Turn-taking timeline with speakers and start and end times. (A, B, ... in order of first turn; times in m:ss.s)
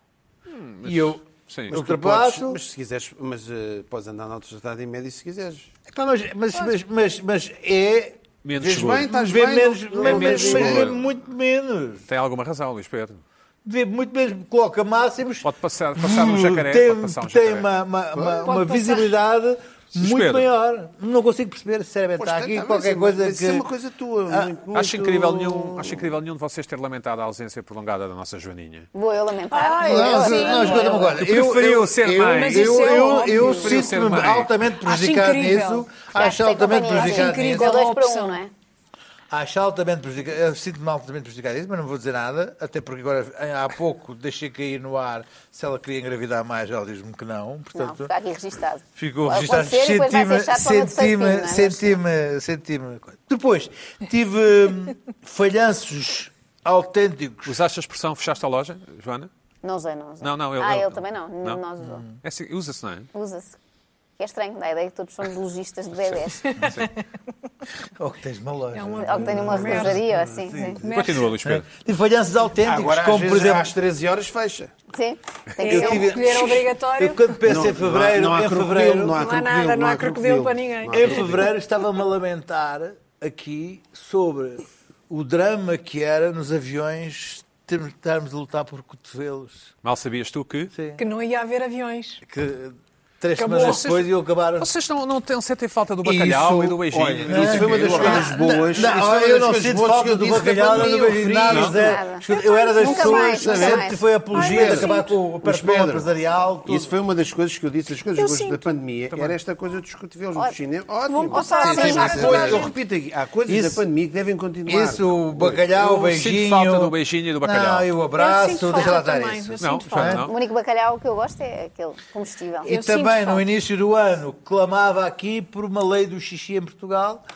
0:00.5-0:01.8 A
0:00.8-0:02.6 B
0:01.7-0:05.7 C
0:05.9-0:12.0 B
0:08.4-0:09.1 A
0:08.6-0:11.0 C
0:10.0-0:11.0 A
0:12.1-0:13.2 A
0:13.6-0:23.6 B
0:15.4-0:17.7 A
0:18.1-0:18.4 C
0:18.4-0:19.1 D
0:19.9-0:20.5 A
0:22.2-0:26.0 C
0:24.7-0:28.9 A
0:28.9-0:31.1 E
0:29.5-0:31.1 D
0:29.8-0:37.8 B
0:31.1-0:34.5 A
0:32.2-0:33.9 D
0:34.8-0:35.9 D
0:36.1-0:38.5 E
0:36.9-0:38.4 D
0:39.3-0:48.1 B
0:47.7-0:52.0 E
0:49.0-0:57.6 B
0:57.4-0:59.3 A
0:59.6-1:02.0 E
1:00.2-1:01.6 A
1:02.2-1:03.1 A
1:03.1-1:03.6 E
1:04.2-1:06.7 E
1:06.5-1:06.9 A
1:08.0-1:10.9 B
1:08.7-1:10.0 D
1:08.9-1:10.8 E
1:10.8-1:11.2 D
1:10.8-1:11.7 A
1:11.4-1:13.7 B
1:12.6-1:14.7 C
1:14.9-1:16.1 E
1:15.6-1:17.4 D
1:15.6-1:19.2 B
1:17.4-1:21.5 C
1:19.2-1:21.3 D
1:20.9-1:29.7 B
1:29.8-1:30.7 A
1:30.7-1:31.0 B
1:31.0-1:32.2 D
1:32.2-1:34.7 B
1:33.4-1:33.9 D
1:33.4-1:38.8 A
1:36.1-1:46.9 B
1:36.9-1:42.0 C
1:41.5-1:41.8 A
1:41.7-1:44.0 E
1:42.4-1:43.8 D
1:43.2-1:46.1 C
1:44.3-1:45.1 D
1:46.6-1:55.6 C
1:48.1-1:48.6 D
1:49.1-1:49.4 A
1:51.1-1:52.7 D
1:51.3-1:52.5 E
1:51.6-1:52.7 B
1:53.5-1:53.8 B
1:54.6-2:00.3 B
1:55.7-1:57.9 A
1:58.2-2:00.2 D
1:59.6-2:00.3 A
2:00.2-2:02.7 E
2:02.6-2:07.2 B
2:02.6-2:03.5 D